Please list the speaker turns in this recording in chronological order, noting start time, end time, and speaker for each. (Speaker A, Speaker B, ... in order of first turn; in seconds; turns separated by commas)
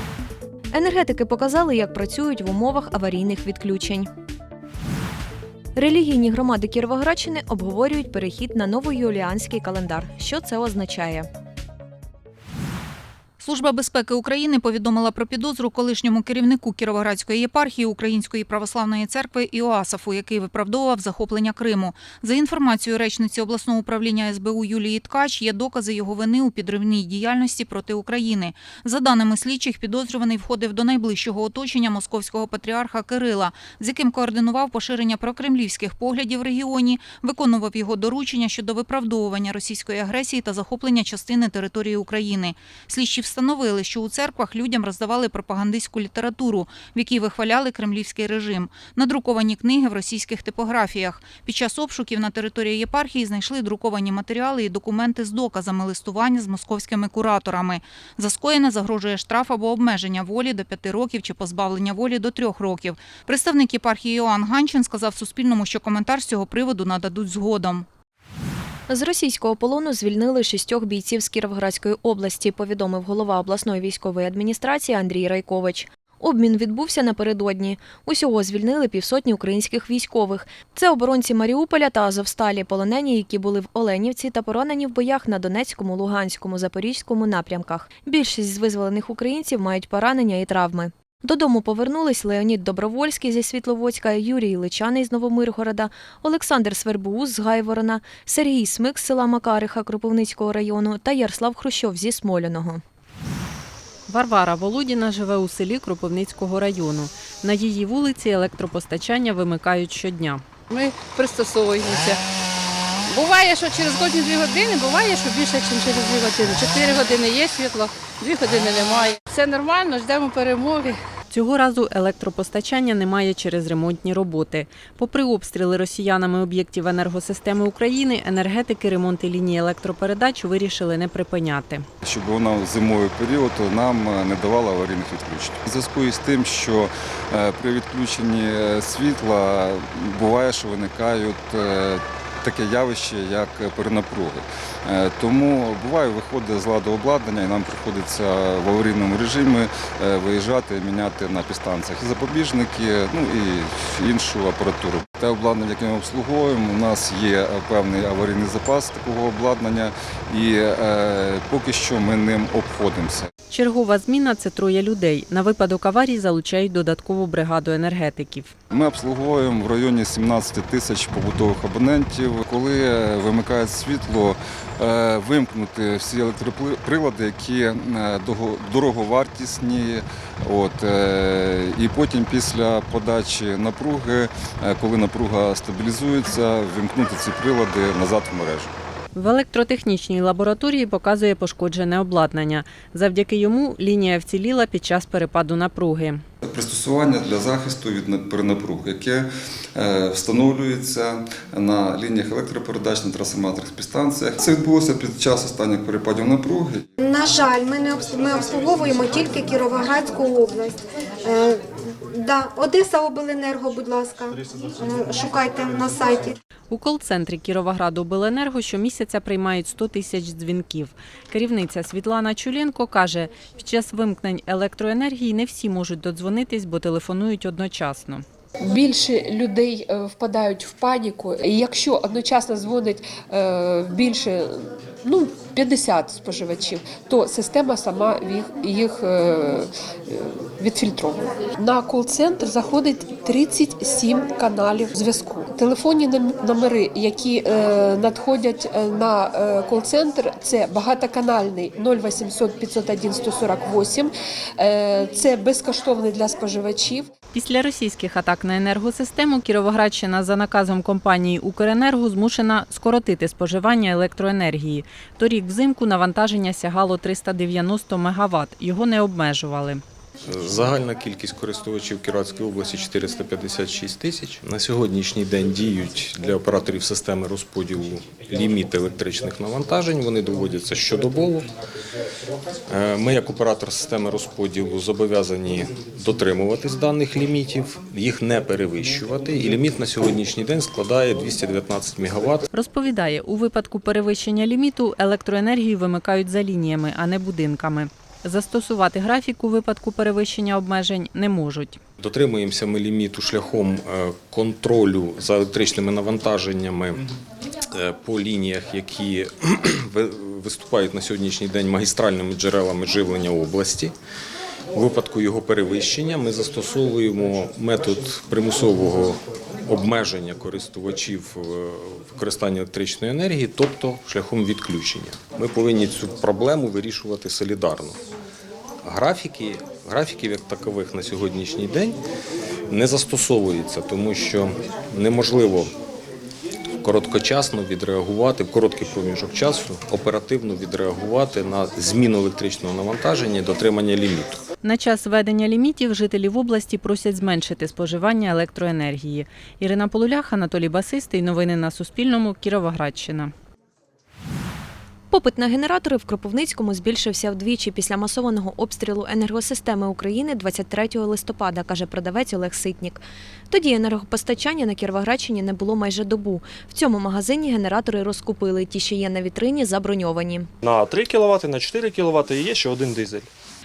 Speaker A: 0.7-4.1, Speaker A: 5.8-11.3, Speaker B: 13.4-67.9, Speaker A: 68.9-102.8, Speaker C: 104.1-110.4, Speaker D: 110.7-112.2, Speaker D: 113.1-121.0, Speaker C: 121.3-131.8, Speaker E: 132.0-163.3, Speaker C: 163.5-168.5, Speaker E: 168.7-188.7, Speaker C: 189.1-196.2, Speaker E: 196.4-206.8, Speaker F: 207.0-210.6, Speaker F: 212.3-216.3, Speaker C: 216.7-228.2, Speaker G: 228.7-257.1, Speaker C: 257.3-269.8, Speaker H: 270.2-281.5, Speaker H: 282.7-292.4, Speaker C: 292.5-301.8, Speaker H: 302.0-307.0, Speaker H: 307.7-313.9, Speaker H: 314.7-328.0, Speaker H: 328.8-332.0, Speaker H: 332.7-335.8, Speaker H: 336.8-344.4, Speaker C: 344.6-353.3, Speaker A: 355.1-370.5, Speaker I: 370.6-373.3